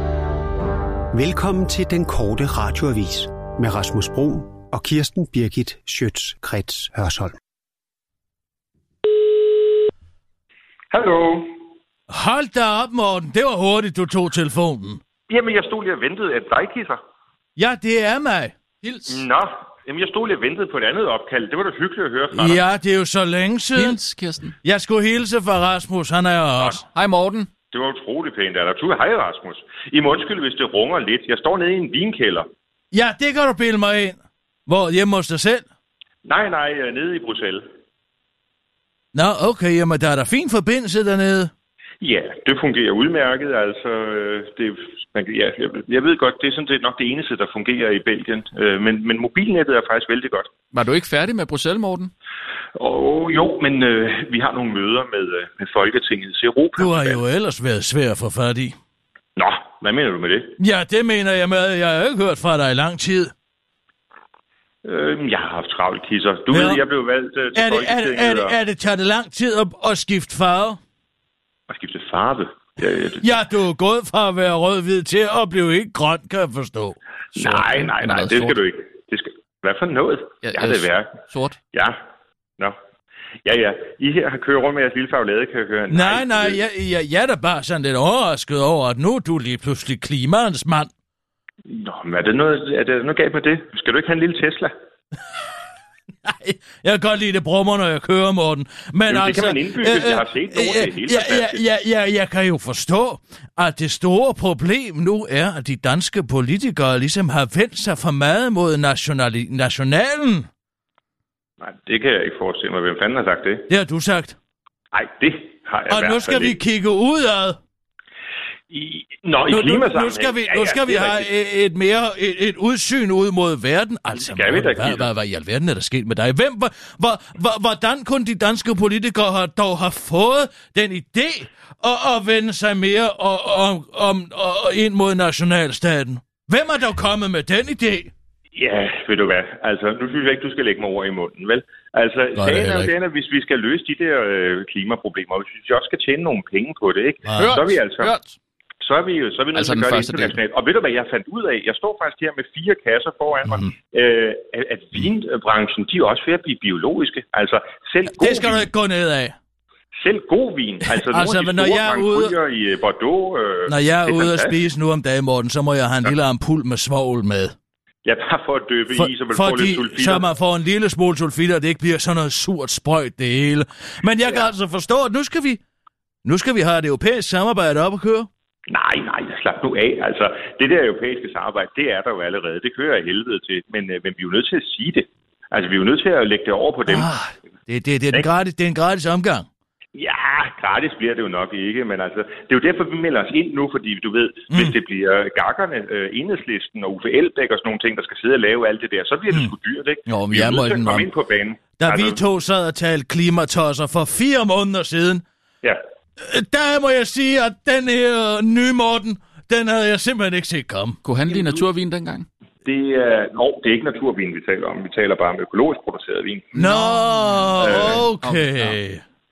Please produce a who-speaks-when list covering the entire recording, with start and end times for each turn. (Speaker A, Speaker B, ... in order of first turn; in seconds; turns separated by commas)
Speaker A: 1.1-7.3, Speaker B: 10.9-11.5, Speaker C: 12.1-15.0, Speaker B: 15.3-17.0, Speaker C: 17.6-18.9, Speaker B: 19.1-22.6, Speaker C: 22.3-24.0, Speaker D: 23.7-24.5, Speaker C: 24.6-26.8, Speaker D: 26.9-27.5, Speaker B: 27.7-32.5, Speaker C: 32.9-35.6, Speaker B: 36.2-37.6, Speaker C: 39.1-41.5, Speaker B: 42.0-50.5, Speaker D: 50.7-52.1, Speaker B: 52.8-57.2, Speaker C: 56.8-58.8, Speaker B: 59.4-60.5, Speaker C: 60.6-63.3, Speaker B: 64.8-68.5, Speaker C: 66.5-66.8, Speaker C: 67.5-70.8, Speaker B: 71.7-73.4, Speaker C: 73.2-77.0, Speaker D: 77.3-78.6, Speaker B: 77.3-81.1, Speaker D: 80.4-81.6, Speaker B: 83.4-86.6, Speaker C: 85.9-90.9, Speaker B: 91.7-94.7, Speaker C: 96.2-110.5, Speaker B: 99.1-101.6, Speaker B: 111.6-113.7, Speaker C: 113.7-114.4, Speaker B: 114.9-116.5, Speaker C: 115.9-117.6, Speaker B: 118.7-121.3, Speaker C: 119.5-138.1, Speaker B: 124.2-125.1, Speaker B: 138.6-148.1, Speaker C: 142.3-142.9, Speaker D: 147.4-148.3, Speaker B: 148.8-158.7, Speaker D: 149.5-150.3, Speaker C: 158.1-159.3, Speaker B: 159.9-164.5, Speaker C: 160.9-162.3, Speaker C: 163.7-167.5, Speaker B: 168.0-170.2, Speaker C: 168.9-175.6, Speaker C: 176.2-178.3, Speaker B: 178.7-187.2, Speaker C: 186.9-189.5, Speaker B: 189.9-202.2, Speaker C: 200.1-201.1, Speaker C: 201.8-205.2, Speaker C: 206.2-211.0, Speaker D: 211.0-212.3, Speaker B: 211.3-211.6, Speaker B: 212.6-216.5, Speaker D: 216.5-217.6, Speaker C: 216.5-219.0, Speaker B: 217.6-218.1, Speaker D: 218.1-218.8